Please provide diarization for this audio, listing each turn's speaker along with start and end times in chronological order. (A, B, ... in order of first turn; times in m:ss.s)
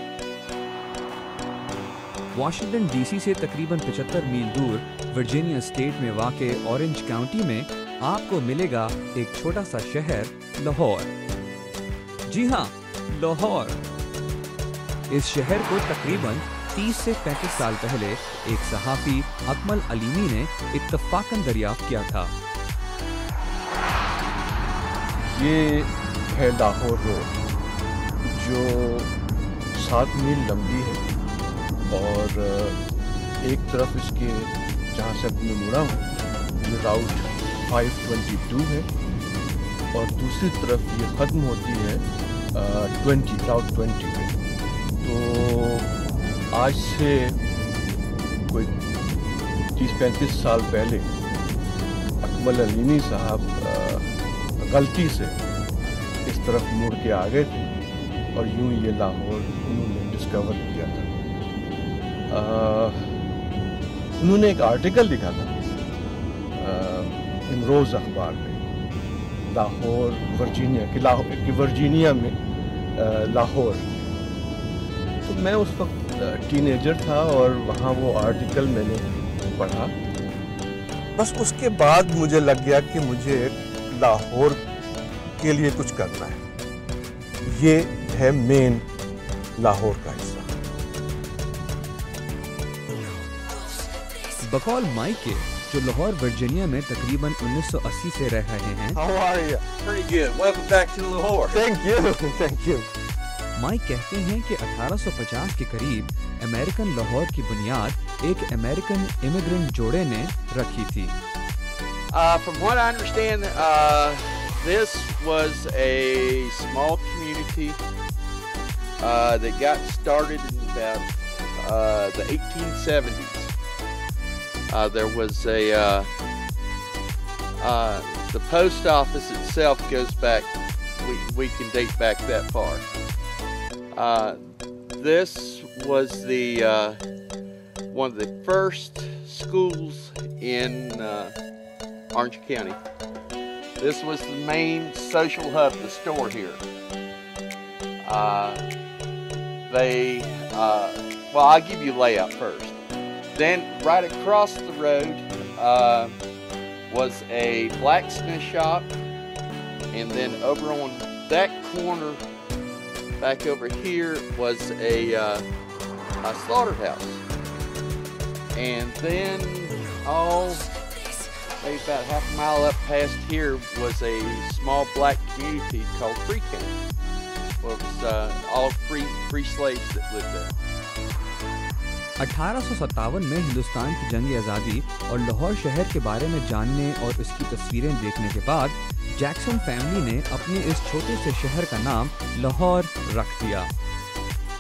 0:02.3-0:11.1 A
0:12.3-0:13.8 A
0:15.1-0:22.3 A
0:25.2-0:27.4 B
0:28.2-0:29.1 B
0:29.7-0:31.0 B
0:31.8-0:32.8 B
0:33.4-0:38.9 B
0:39.9-0:44.4 B
0:45.0-0:45.9 B
0:46.5-0:47.4 B
0:48.5-0:48.7 B
0:49.7-0:51.1 B
0:52.2-0:55.4 B
0:56.2-0:57.7 B
0:58.3-1:01.1 B
1:02.3-1:03.0 B
1:04.2-1:05.6 B
1:06.6-1:08.6 B
1:09.5-1:12.3 B
1:12.9-1:14.1 B
1:15.2-1:19.9 B
1:21.2-1:24.6 B
1:25.4-1:26.4 B
1:27.4-1:28.8 B
1:29.6-1:30.5 B
1:34.4-1:39.0 A
1:38.9-1:39.6 B
1:39.8-1:41.6 C
1:41.5-1:42.8 B
1:43.5-1:51.2 A
1:52.1-1:57.8 C
1:59.0-2:03.5 C
2:04.7-2:06.1 C
2:07.6-2:12.9 C
2:13.9-2:17.0 C
2:17.9-2:21.3 C
2:22.1-2:22.8 C
2:23.8-2:26.6 C
2:28.0-2:28.6 C
2:29.7-2:32.8 C
2:33.3-2:36.2 C
2:36.9-2:38.9 C
2:39.9-2:42.2 C
2:43.2-2:45.4 C
2:46.2-2:47.2 C
2:48.6-2:50.7 C
2:51.6-2:56.8 C
2:57.6-3:00.6 C
3:02.2-3:13.7 A